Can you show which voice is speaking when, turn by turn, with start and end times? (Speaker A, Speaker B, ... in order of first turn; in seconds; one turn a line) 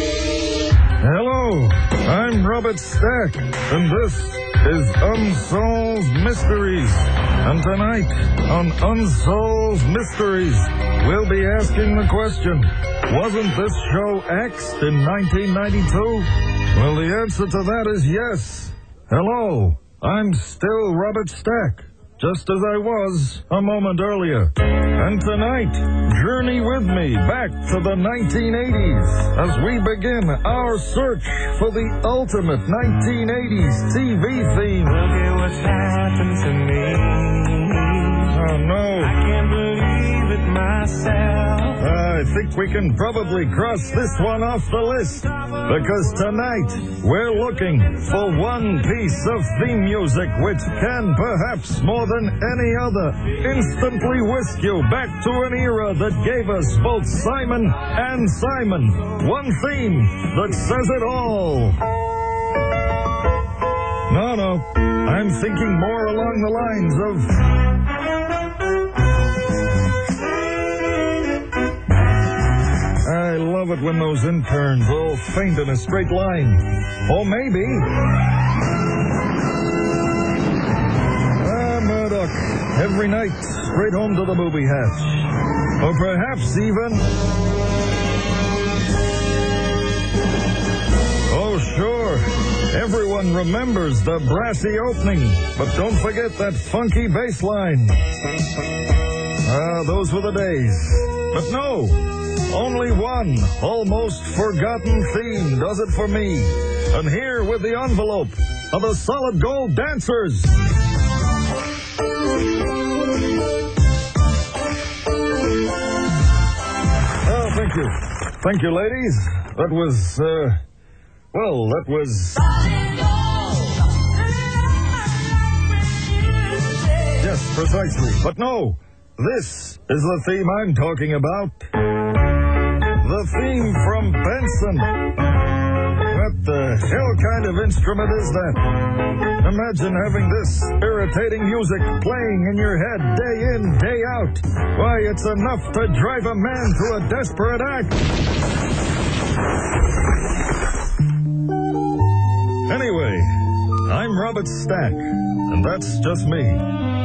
Speaker A: 1.0-35.1
Speaker A: 38.2-39.2
Speaker A: 41.8-61.8
Speaker A: 64.1-67.3
Speaker A: 73.0-77.9
Speaker A: 81.4-87.0
Speaker A: 91.3-98.0
Speaker A: 99.4-110.5
Speaker A: 117.2-120.6
Speaker A: 121.3-122.4
Speaker A: 127.2-131.7
Speaker A: 133.0-135.1
Speaker A: 136.1-138.8
Speaker A: 139.4-148.0
Speaker A: 152.7-153.3
Speaker A: 153.8-156.6